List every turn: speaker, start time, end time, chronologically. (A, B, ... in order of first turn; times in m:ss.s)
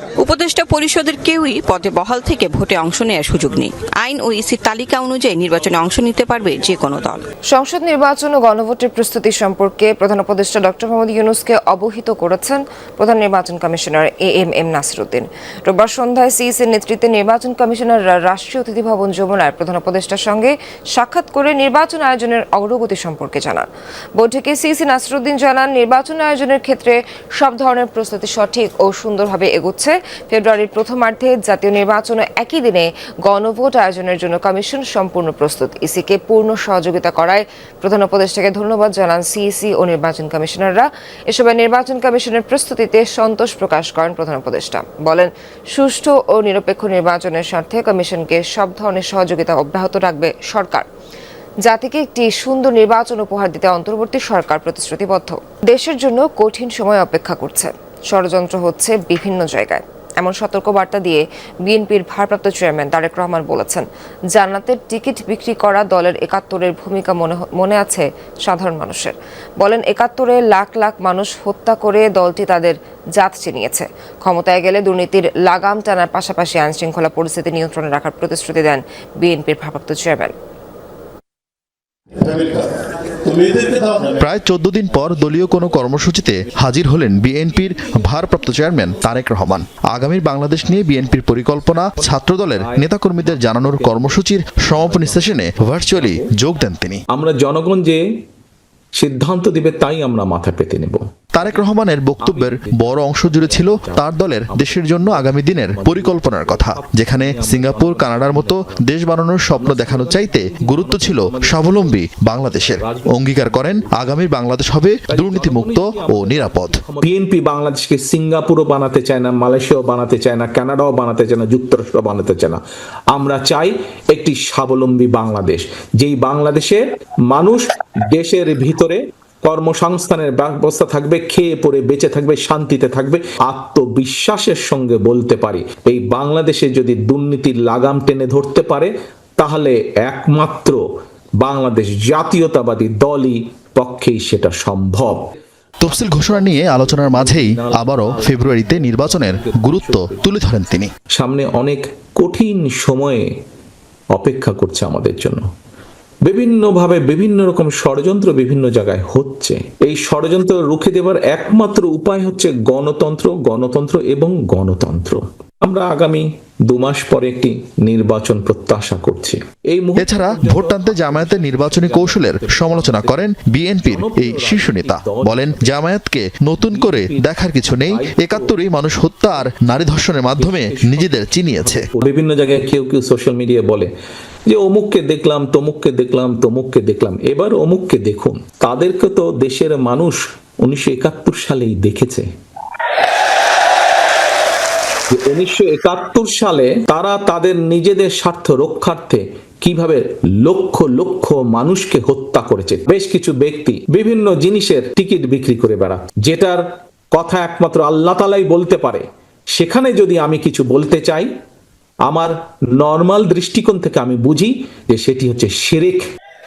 0:00.2-0:07.2 A
0:07.5-0:50.8 B
0:51.6-1:20.3 B
1:23.5-1:37.0 C
1:32.0-1:36.3 D
1:37.1-1:38.0 D
1:39.0-1:41.7 D
1:41.3-1:56.8 C
1:42.2-1:48.8 D
1:49.5-1:54.0 D
1:55.1-2:02.6 D
2:03.1-2:20.8 D
2:21.4-2:25.2 D
2:25.8-2:30.9 C
2:26.0-2:30.2 D
2:31.2-2:33.3 D
2:34.1-2:35.4 D
2:36.3-2:53.3 D
2:50.0-3:01.9 C
2:53.8-2:55.8 D
2:56.6-2:58.5 D
2:59.3-2:59.7 D
3:00.3-3:03.9 D
3:04.5-3:12.2 D
3:15.1-3:26.6 D
3:27.1-3:29.0 D
3:29.6-3:31.3 D
3:32.0-3:36.0 D